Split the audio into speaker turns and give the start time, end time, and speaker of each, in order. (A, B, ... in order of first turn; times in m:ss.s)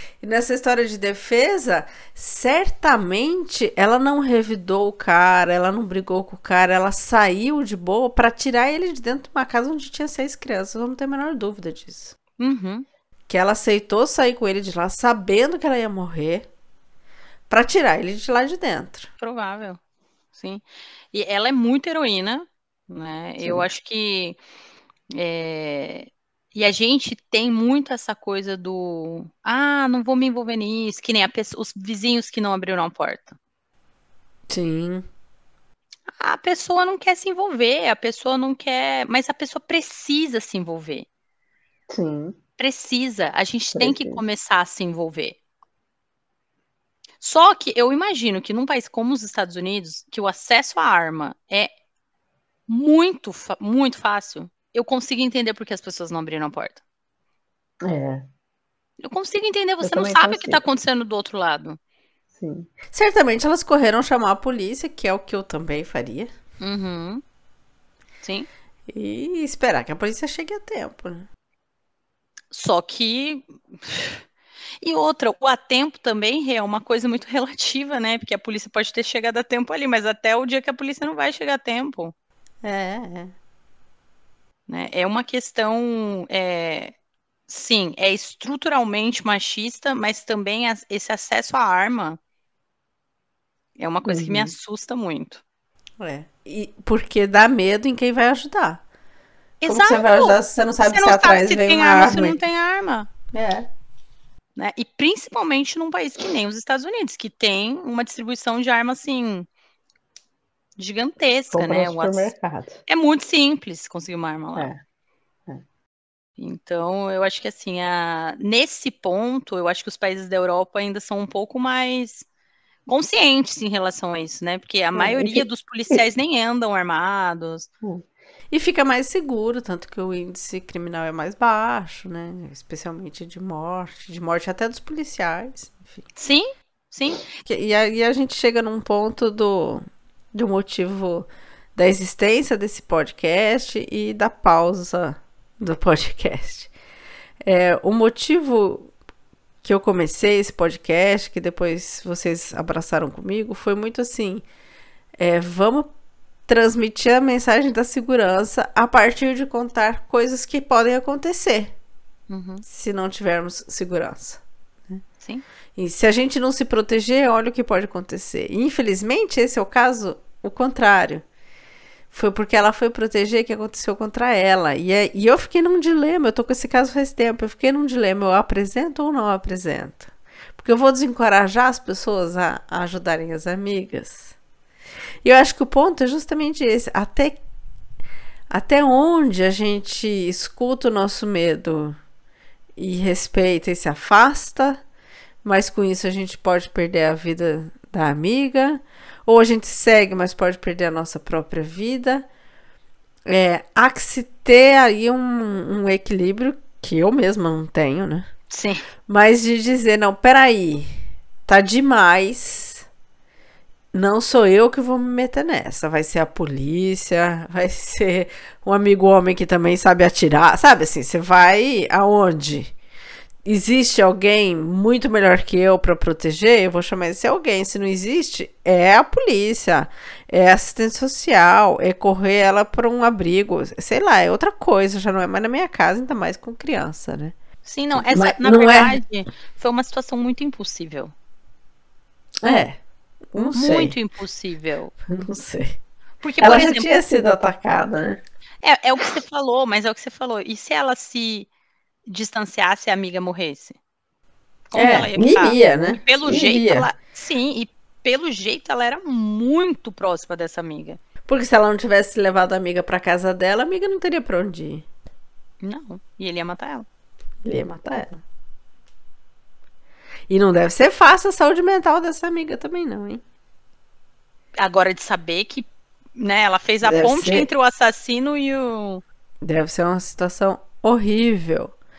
0:00.2-0:12.1 A
0:12.4-0:12.9 B
0:13.3-0:16.5 A
0:17.5-0:19.1 A
0:19.2-0:19.8 B
0:20.3-0:24.4 B
0:25.1-0:33.4 B
0:34.5-0:35.0 A
0:36.2-0:41.1 B
0:41.9-0:42.4 C
0:42.6-0:45.4 B
0:43.8-0:44.2 C
0:47.2-0:51.7 B
0:52.7-0:56.8 B
0:57.8-0:58.3 C
0:59.0-1:01.8 B
0:59.8-1:00.6 C
1:02.4-1:02.7 C
1:02.9-1:06.3 A
1:06.6-1:07.2 B
1:08.2-1:08.5 B
1:08.9-1:11.3 A
1:12.5-1:14.2 B
1:14.8-1:22.1 B
1:22.6-1:23.3 A
1:24.7-1:26.9 B
1:27.5-1:32.2 B
1:33.8-1:35.4 B
1:36.0-1:38.8 A
1:39.6-1:43.1 B
1:39.7-1:42.4 A
1:43.3-1:43.7 A
1:44.6-1:49.5 B
1:50.8-1:52.3 B
1:51.5-1:52.8 C
1:52.9-1:54.7 B
1:56.4-2:02.3 B
2:02.9-2:07.7 B
2:05.0-2:06.0 C
2:08.5-2:16.0 A
2:16.2-2:17.3 B
2:17.4-2:26.7 A
2:27.4-2:28.9 A
2:29.6-2:34.4 A
2:35.2-2:35.9 A
2:36.5-2:41.7 A
2:42.3-2:42.6 B
2:42.6-2:45.0 A
2:45.8-2:51.2 A
2:52.1-3:04.4 A
3:05.2-3:07.4 A
3:08.5-3:12.0 A
3:12.8-3:14.8 A
3:15.4-3:22.3 A
3:23.3-3:28.3 A
3:28.5-3:28.9 B
3:29.1-3:30.9 A
3:31.5-3:32.9 A
3:33.9-3:42.7 A
3:43.4-3:57.4 A
3:57.6-4:01.1 B
3:58.1-3:59.0 A
4:02.4-4:02.8 A
4:03.3-4:04.0 A
4:03.5-4:04.9 B
4:05.1-4:05.8 A
4:06.2-4:07.0 B
4:06.4-4:08.2 A
4:08.6-4:11.5 B
4:12.1-4:13.8 B
4:14.7-4:21.0 B
4:14.7-4:16.9 A
4:21.3-4:24.9 A
4:25.6-4:26.9 B
4:27.4-4:28.2 A
4:30.3-4:33.2 A
4:34.6-4:39.0 B
4:36.8-4:37.5 A
4:39.4-4:41.7 A